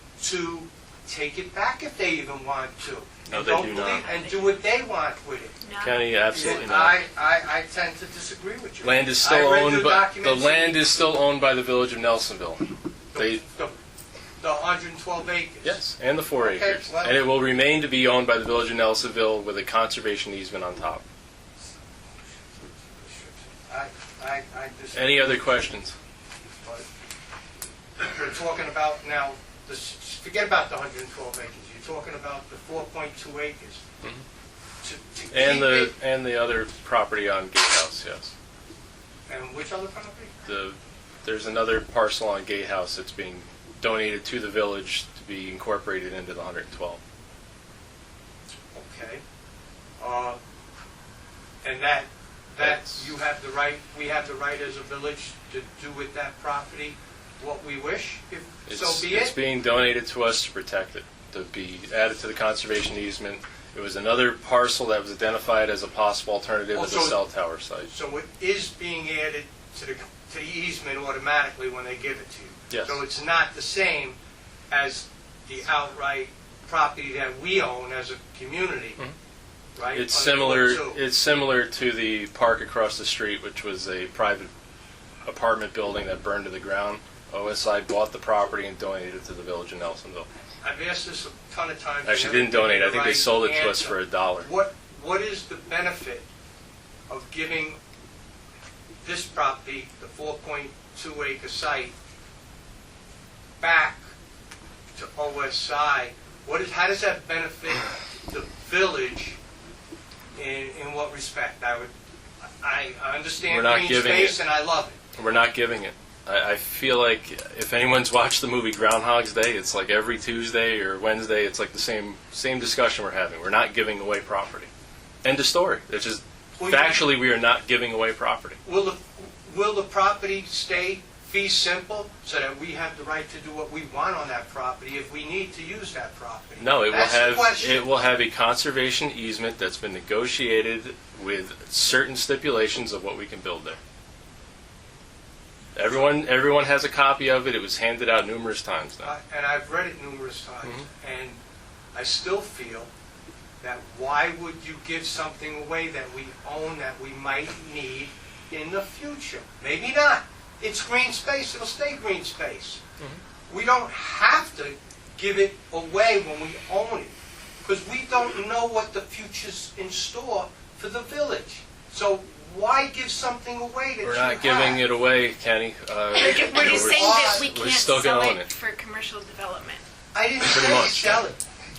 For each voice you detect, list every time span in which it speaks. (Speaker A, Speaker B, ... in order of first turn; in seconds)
Speaker A: 0.2-5.6, 6.3-10.8, 13.1-13.7, 14.4-15.8, 16.4-17.3, 23.0-25.5, 28.0-33.8, 34.8-35.9, 39.3-40.5, 48.7-49.2, 50.0-50.4, 51.6-59.4, 66.7-67.2, 67.8-74.2, 74.7-79.0, 79.8-81.0, 90.6-96.3, 97.1-97.8, 99.0-101.9, 103.6-104.0, 105.0-109.4, 110.3-111.9, 112.4-115.0, 126.6-127.0, 128.6-137.9, 149.0-151.4, 151.9-152.9, 153.6-162.8, 163.5-174.9, 176.2-177.5, 180.1-181.4
Speaker B: 3.3-4.1, 5.8-7.0, 8.8-13.4, 15.6-21.0, 24.9-25.9, 35.3-38.3, 40.5-47.0, 52.6-53.0, 58.7-67.9, 72.7-73.0, 79.9-84.5, 85.2-90.3, 92.0-94.5, 113.5-114.4, 115.2-124.7, 125.2-128.6, 136.6-143.8, 145.8-149.1, 174.0-178.5, 180.4-181.3
Speaker C: 3.9-4.5, 5.6-6.6, 176.1-179.8